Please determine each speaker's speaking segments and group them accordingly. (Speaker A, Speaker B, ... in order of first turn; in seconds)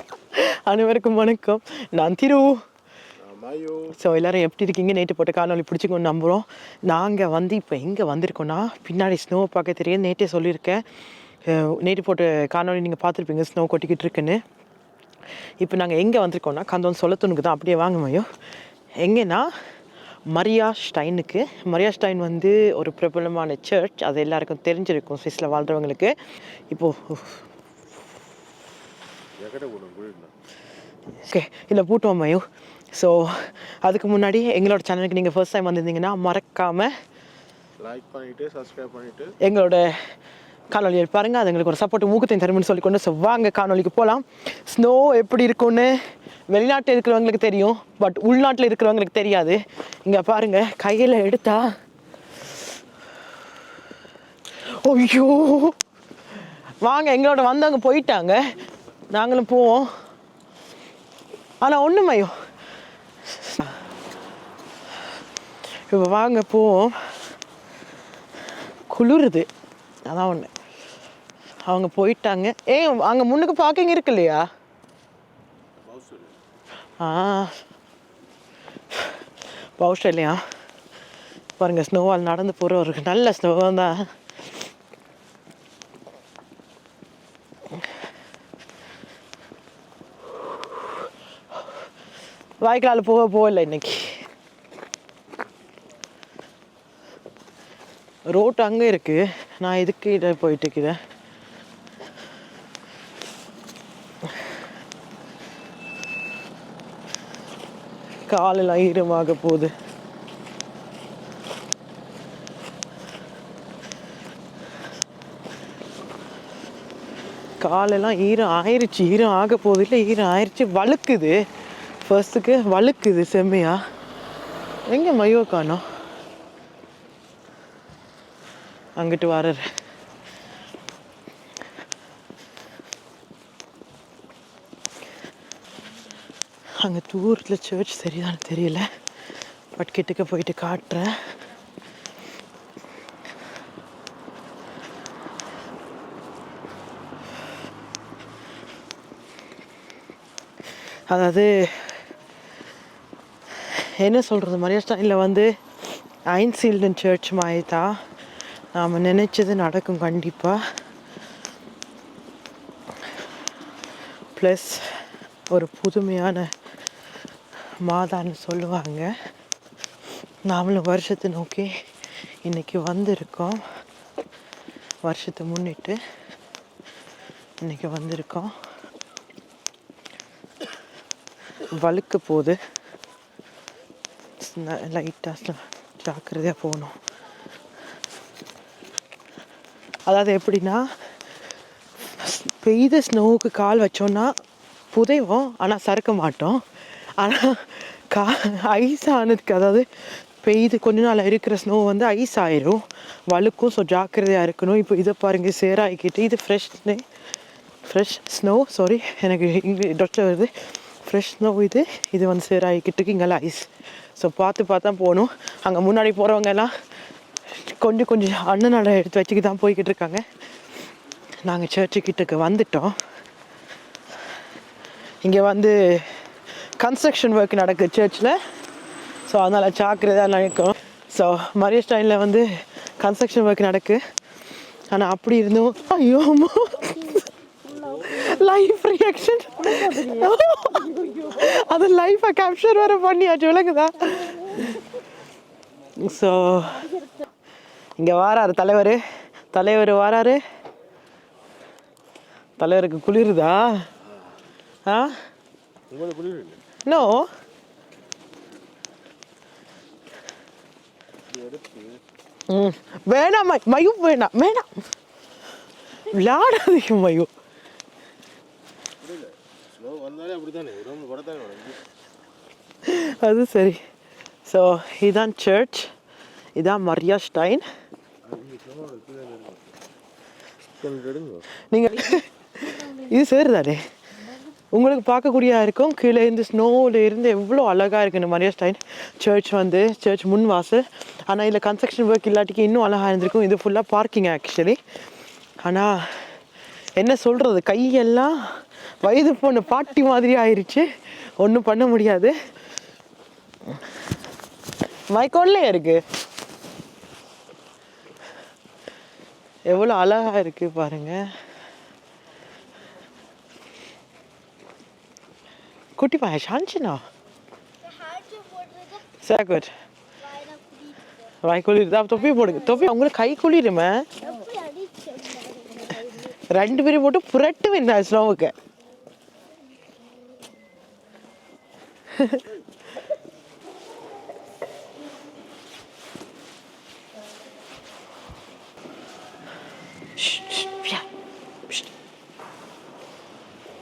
Speaker A: 0.3-2.6, 3.9-10.8, 11.4-14.4, 15.6-18.3, 19.0-19.6, 20.3-26.2, 26.7-27.5, 31.2-36.9, 39.4-40.1, 40.7-51.7, 54.6-55.8, 56.4-58.6, 59.1-59.9, 61.6-62.4, 63.2-63.8, 65.8-67.3, 68.9-69.5, 70.0-70.5, 71.6-74.5, 77.0-77.6, 78.9-79.2, 79.8-80.4, 81.6-84.1, 90.5-91.7, 92.6-94.3, 98.2-101.0, 108.2-109.7, 117.6-121.4, 122.0-123.8, 124.9-125.9, 128.9-129.7, 136.8-138.9, 139.7-141.3, 150.8-152.1, 153.5-158.0, 158.7-160.7, 164.3-166.5, 167.8-169.3, 170.4-171.7, 172.4-173.6, 175.0-176.0, 177.6-178.6, 181.5-182.6, 184.4-187.0, 190.0-191.1, 192.0-194.3, 194.9-207.1, 207.8-216.8, 217.5-220.3, 221.4-223.0, 225.2-228.4, 229.1-234.0, 234.6-245.0, 245.9-247.2, 247.9-250.4, 252.6-253.9, 254.8-255.2, 256.8-257.3, 262.5-264.8, 266.0-267.3, 272.8-273.8, 274.4-275.9, 276.5-277.7, 281.6-283.8, 284.5-294.8, 295.6-296.4, 296.9-302.4, 303.7-303.9, 305.1-306.0, 309.6-311.4, 316.0-317.1, 319.0-319.7, 321.2-324.4, 325.9-328.5, 332.1-332.4, 340.1-341.1
Speaker B: 3.2-3.9, 29.4-30.3, 37.8-39.4, 75.8-76.4, 255.9-256.6, 261.3-262.0, 269.0-271.8, 278.2-279.7, 280.8-281.4
Speaker C: 317.8-318.9, 320.4-320.9, 324.4-325.9